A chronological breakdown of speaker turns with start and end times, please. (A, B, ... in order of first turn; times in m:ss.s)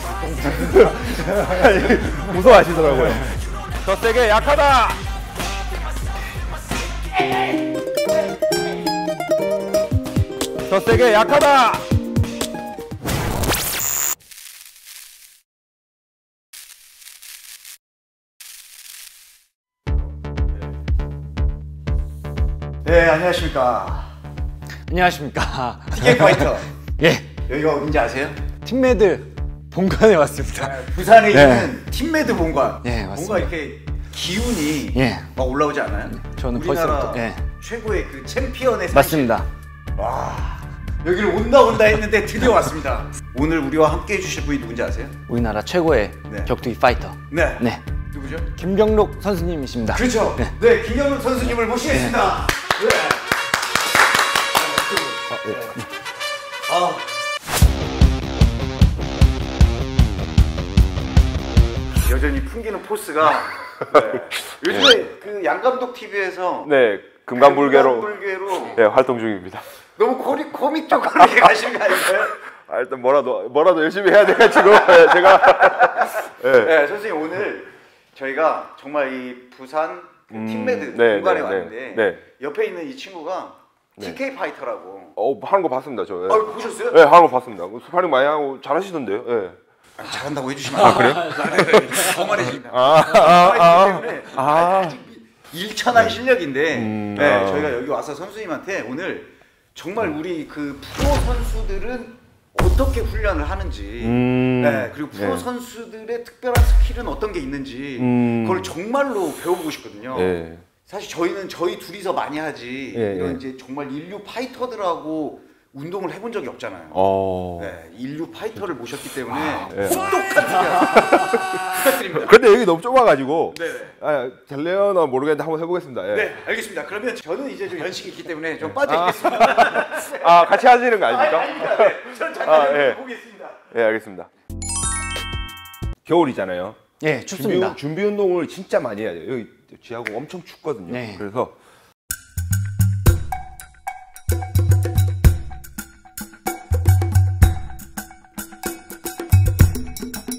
0:00.3-0:03.2 A
0:03.8-0:05.0 A
0:10.7-0:11.8 A
0:22.8-0:24.1 B
0:24.9-0:27.3 C
0:25.9-0:26.7 B
0:27.5-0:28.4 B
0:28.6-0:31.8 C
0:30.6-0:39.4 B
0:32.8-0:33.5 C
0:34.9-0:35.3 C
0:36.1-0:37.4 C
0:38.9-0:39.5 C
0:40.0-0:45.2 B
0:45.3-0:47.8 C
0:47.3-0:48.5 B
0:48.5-0:50.5 C
0:49.9-0:53.2 B
0:51.9-0:52.2 C
0:54.6-0:55.2 B
0:55.3-0:55.8 A
0:56.7-0:57.0 B
1:02.0-1:06.7 B
1:04.1-1:04.9 A
1:06.6-1:08.1 A
1:07.3-1:08.8 B
1:08.6-1:09.7 A
1:10.0-1:12.4 B
1:12.4-1:16.8 A
1:14.7-1:25.2 B
1:20.3-1:22.2 A
1:25.2-1:29.6 A
1:26.3-1:27.0 B
1:30.0-1:57.0 B
1:30.8-1:31.7 A
1:32.5-1:35.0 A
1:36.7-1:37.8 A
1:44.0-1:45.5 A
1:48.0-1:48.7 A
1:50.1-1:50.7 A
1:52.9-1:53.4 A
1:56.9-1:57.7 A
1:57.6-2:02.3 B
1:59.7-2:00.1 A
2:00.9-2:06.3 A
2:03.5-2:03.9 B
2:06.1-2:13.7 B
2:08.8-2:13.0 A
2:13.7-2:14.3 A
2:16.0-2:16.8 A
2:17.0-2:17.8 C
2:17.3-2:21.6 A
2:20.9-2:21.2 C